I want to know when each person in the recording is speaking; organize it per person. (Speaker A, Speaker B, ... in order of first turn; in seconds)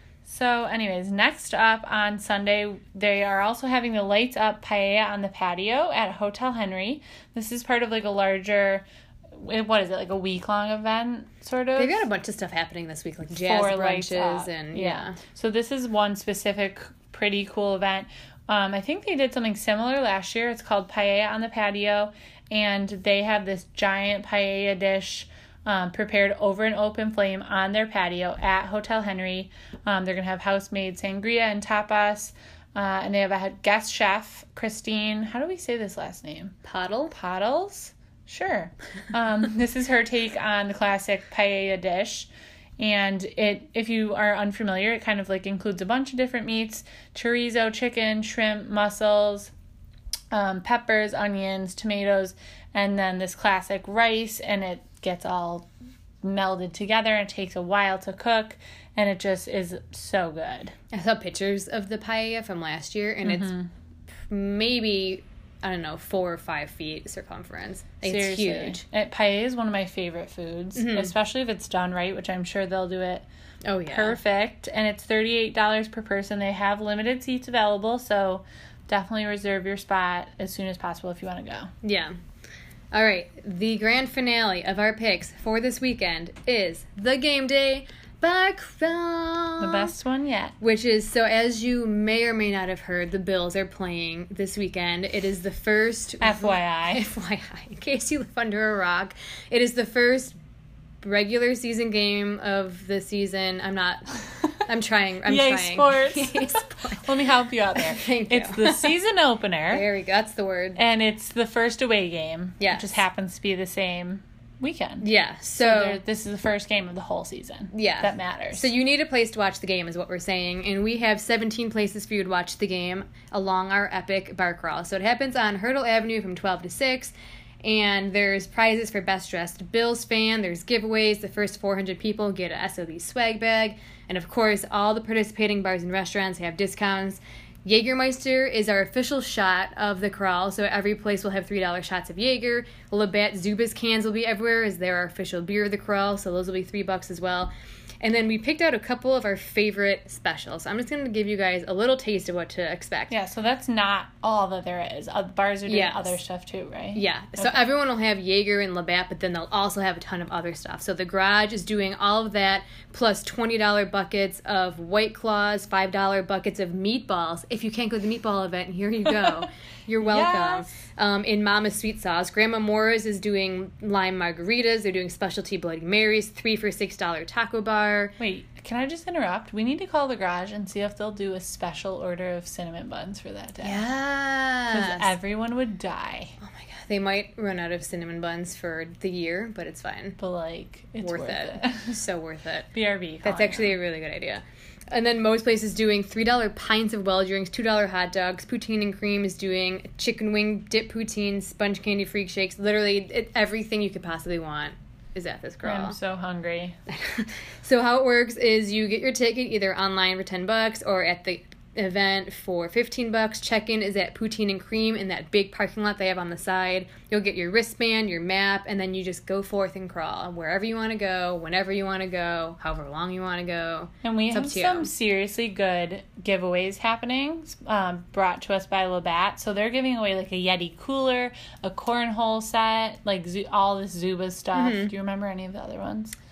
Speaker A: 0.2-12.1, 13.4-36.5, 37.1-49.5, 50.3-55.7, 56.2-60.7, 63.2-63.7, 68.0-73.2, 73.9-81.7, 89.6-90.5, 96.2-97.1, 105.3-109.9, 110.8-118.7, 153.1-157.6, 170.0-170.7, 178.2-183.9, 184.7-186.3, 190.2-192.0, 192.7-193.7, 205.6-206.8, 224.0-236.2
Speaker B: 11.8-15.2, 36.6-37.1, 60.9-63.5, 64.3-68.8, 70.8-71.1, 73.7-74.2, 81.8-82.2, 82.9-89.9, 90.6-100.4, 101.0-104.1, 104.6-107.1, 107.8-108.9, 109.7-110.8, 112.6-113.0, 115.0-116.0, 117.7-153.1, 155.7-156.2, 156.9-178.1, 183.6-185.1, 186.4-190.2, 191.0-192.7, 193.2-206.0, 206.9-224.9, 234.5-234.9